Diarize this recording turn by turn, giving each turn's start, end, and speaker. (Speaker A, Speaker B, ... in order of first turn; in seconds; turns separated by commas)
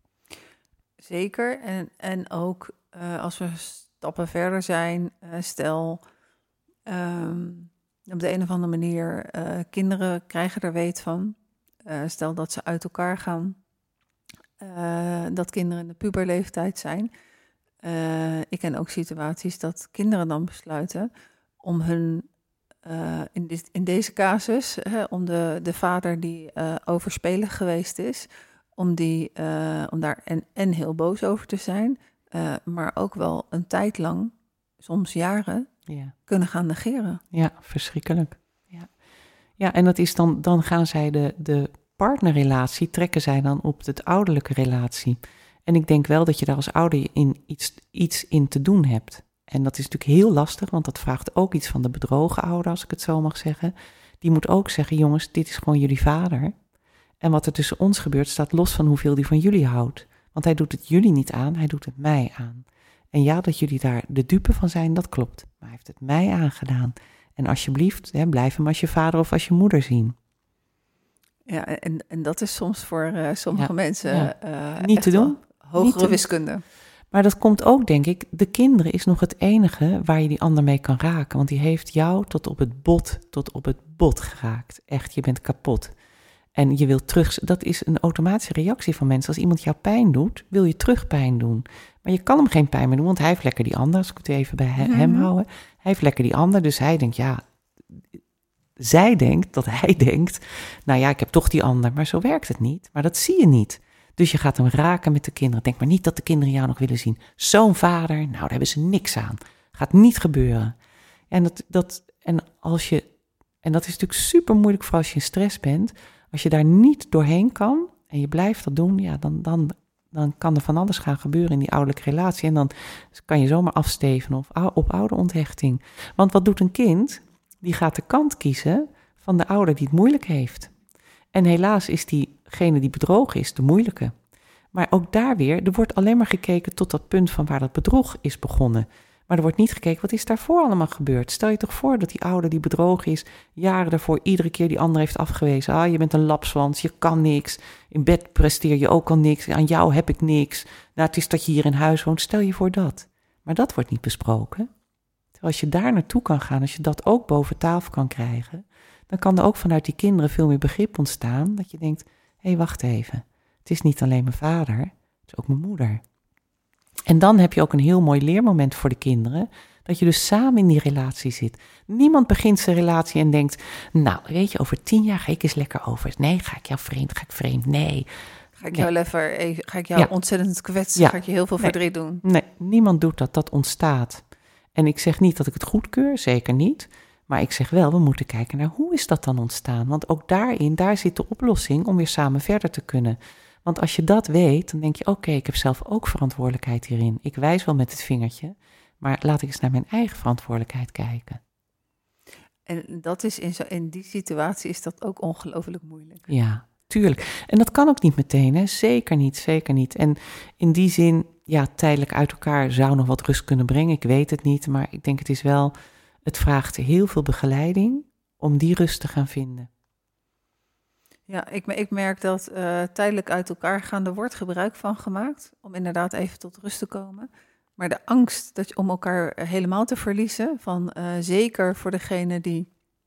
Speaker A: 1.0-6.0, Speaker A: 6.9-13.6, Speaker A: 14.6-17.1, Speaker A: 17.8-21.1, Speaker A: 21.6-22.3, Speaker A: 22.8-35.7, Speaker B: 35.9-36.1, Speaker A: 36.3-37.2, Speaker B: 37.3-38.9, Speaker B: 39.6-56.5, Speaker B: 57.2-70.1, Speaker A: 71.5-76.6, Speaker B: 73.5-76.2, Speaker B: 77.1-85.9, Speaker B: 86.5-98.2, Speaker A: 94.8-95.3, Speaker B: 98.8-110.7, Speaker B: 111.3-113.1, Speaker B: 113.6-130.7, Speaker B: 131.3-134.1, Speaker B: 134.7-154.7, Speaker B: 155.4-166.0, Speaker B: 167.1-178.1, Speaker A: 178.6-182.2, Speaker B: 181.0-184.2, Speaker B: 184.7-201.4, Speaker A: 202.7-206.2, Speaker B: 206.3-215.7, Speaker B: 216.2-219.7, Speaker A: 221.3-232.7